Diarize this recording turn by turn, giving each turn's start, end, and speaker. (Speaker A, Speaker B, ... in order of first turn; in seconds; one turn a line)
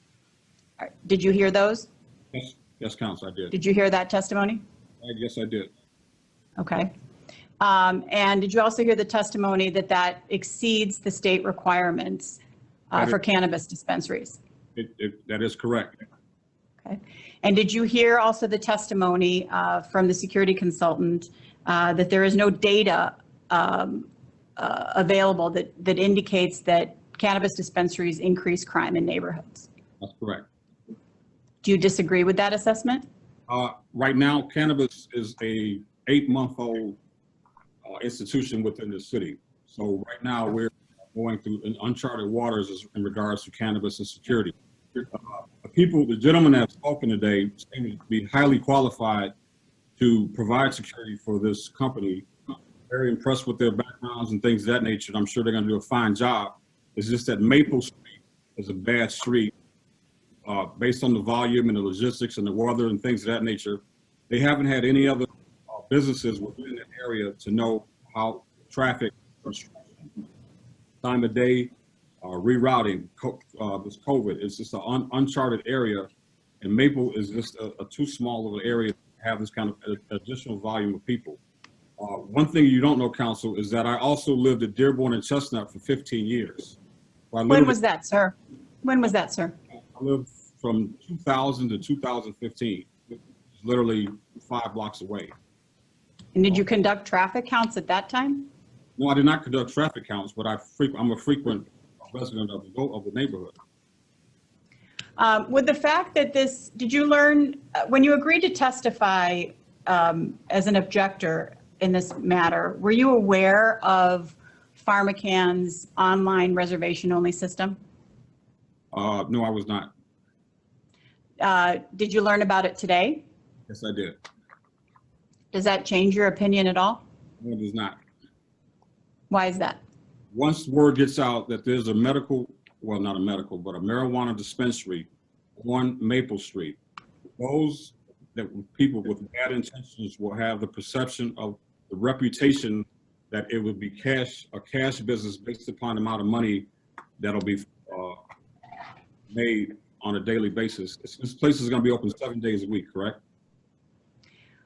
Speaker A: 0.8-1.9
Speaker B: 2.3-3.5
Speaker A: 3.5-4.6
Speaker B: 5.0-5.7
Speaker A: 6.6-6.9
Speaker A: 7.6-12.4
Speaker A: 12.9-14.4
Speaker B: 14.8-15.9
Speaker A: 16.8-29.7
Speaker B: 30.0-30.4
Speaker A: 31.6-33.0
Speaker B: 33.5-37.0
Speaker B: 37.8-49.3
Speaker B: 50.0-59.5
Speaker B: 60.4-70.1
Speaker B: 71.0-76.1
Speaker B: 76.6-81.4
Speaker B: 82.0-86.8
Speaker B: 87.3-87.8
Speaker A: 87.5-89.5
Speaker B: 89.9-95.3
Speaker A: 96.3-98.5
Speaker B: 99.0-103.5
Speaker A: 105.2-117.8
Speaker B: 118.9-119.9
Speaker A: 121.4-123.2
Speaker B: 123.7-124.2
Speaker A: 125.5-127.0
Speaker B: 127.4-128.0
Speaker A: 129.3-129.8
Speaker B: 130.3-135.1
Speaker B: 135.6-136.8
Speaker B: 137.4-146.7
Speaker B: 147.2-148.2
Speaker B: 149.3-153.2